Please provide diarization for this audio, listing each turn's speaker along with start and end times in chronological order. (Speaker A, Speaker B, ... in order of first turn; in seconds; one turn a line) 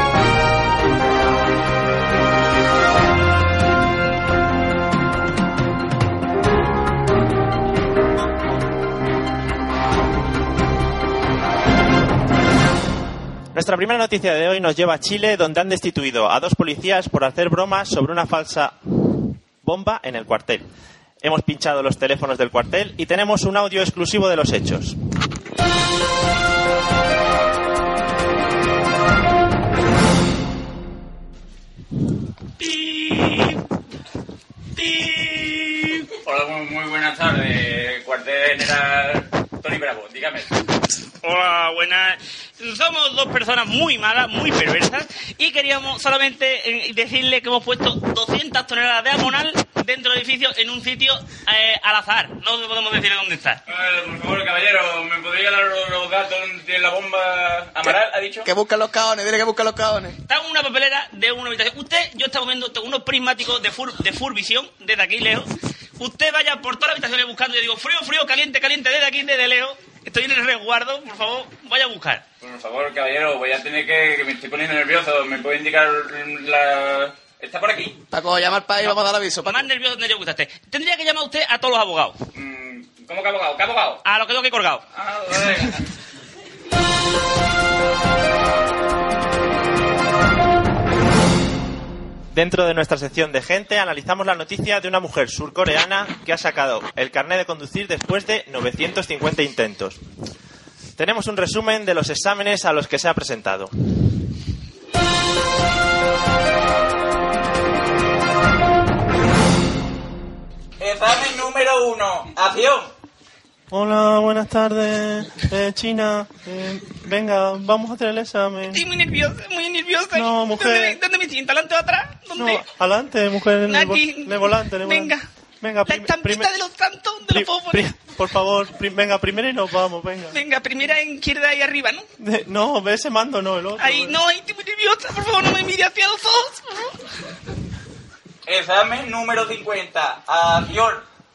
Speaker A: 13.5-20.6
Speaker A: 21.2-24.9
Speaker B: 32.6-33.6
Speaker B: 34.8-36.1
Speaker C: 36.2-40.5
Speaker B: 41.2-53.6
Speaker C: 53.7-58.5
Speaker D: 57.8-60.2
Speaker B: 60.2-72.2
Speaker C: 72.4-78.0
Speaker D: 78.1-79.7
Speaker B: 79.4-82.2
Speaker C: 82.3-84.0
Speaker B: 84.0-84.8
Speaker C: 84.9-85.8
Speaker A: 92.3-100.0
Speaker A: 101.0-103.7
Speaker C: 110.8-112.9
Speaker A: 113.7-118.8
Speaker B: 118.7-122.6
Speaker A: 120.1-121.0
Speaker A: 122.3-126.5
Speaker B: 123.7-125.2
Speaker B: 125.8-127.9
Speaker A: 127.3-130.4
Speaker B: 130.3-132.0
Speaker A: 132.2-134.2
Speaker B: 133.8-136.9
Speaker C: 138.4-141.0